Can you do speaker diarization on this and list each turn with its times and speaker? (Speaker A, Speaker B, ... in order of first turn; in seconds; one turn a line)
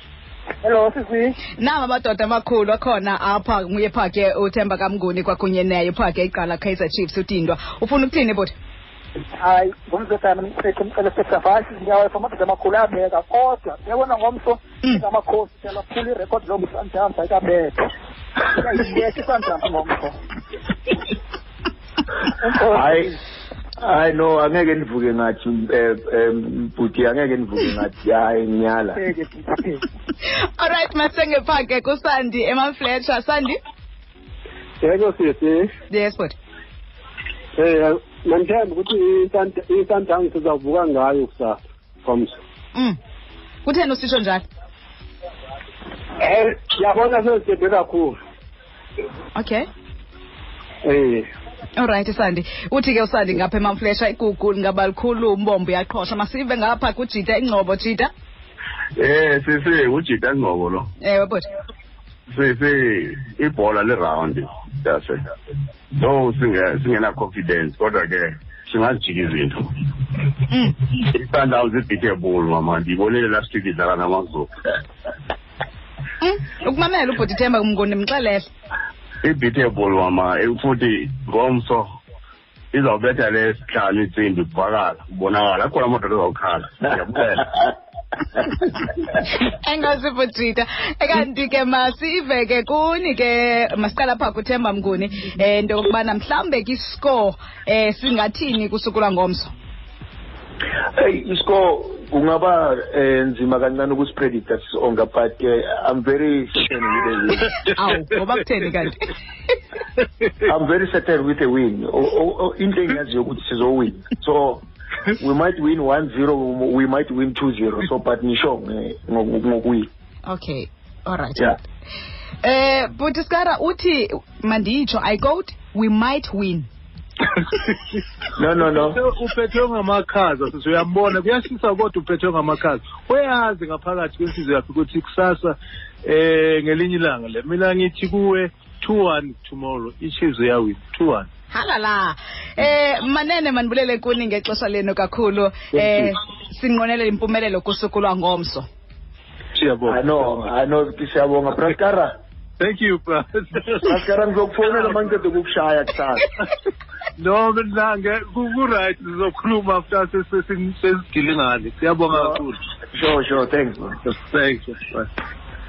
Speaker A: 0.6-1.4
Speaker B: 1.6-8.5
Speaker A: 9.4-17.8
Speaker A: 18.5-20.1
Speaker A: 22.4-23.0
Speaker C: 22.7-23.2
Speaker C: 23.8-29.0
Speaker A: 29.0-29.8
Speaker B: 30.6-33.6
Speaker D: 34.8-35.7
Speaker B: 35.9-36.3
Speaker D: 37.6-42.4
Speaker B: 43.6-44.4
Speaker D: 46.2-48.2
Speaker B: 49.4-49.7
Speaker D: 50.9-51.3
Speaker B: 51.8-58.1
Speaker E: 59.0-60.9
Speaker B: 61.0-61.5
Speaker E: 62.3-65.3
Speaker E: 65.9-74.5
Speaker B: 76.2-78.5
Speaker E: 79.2-81.9
Speaker E: 82.7-87.7
Speaker B: 89.4-99.5
Speaker C: 100.9-107.5
Speaker B: 107.6-109.1
Speaker C: 110.4-119.9
Speaker B: 120.3-121.5
Speaker B: 122.4-126.7
Speaker C: 128.4-129.0
Speaker F: 128.6-141.3
Speaker B: 141.5-148.7
Speaker F: 145.7-146.1
Speaker F: 149.5-150.4
Speaker C: 149.9-152.2
Speaker F: 152.6-153.9
Speaker C: 153.8-156.3
Speaker F: 157.2-162.6
Speaker C: 162.1-162.4
Speaker C: 162.9-164.0
Speaker F: 164.1-165.1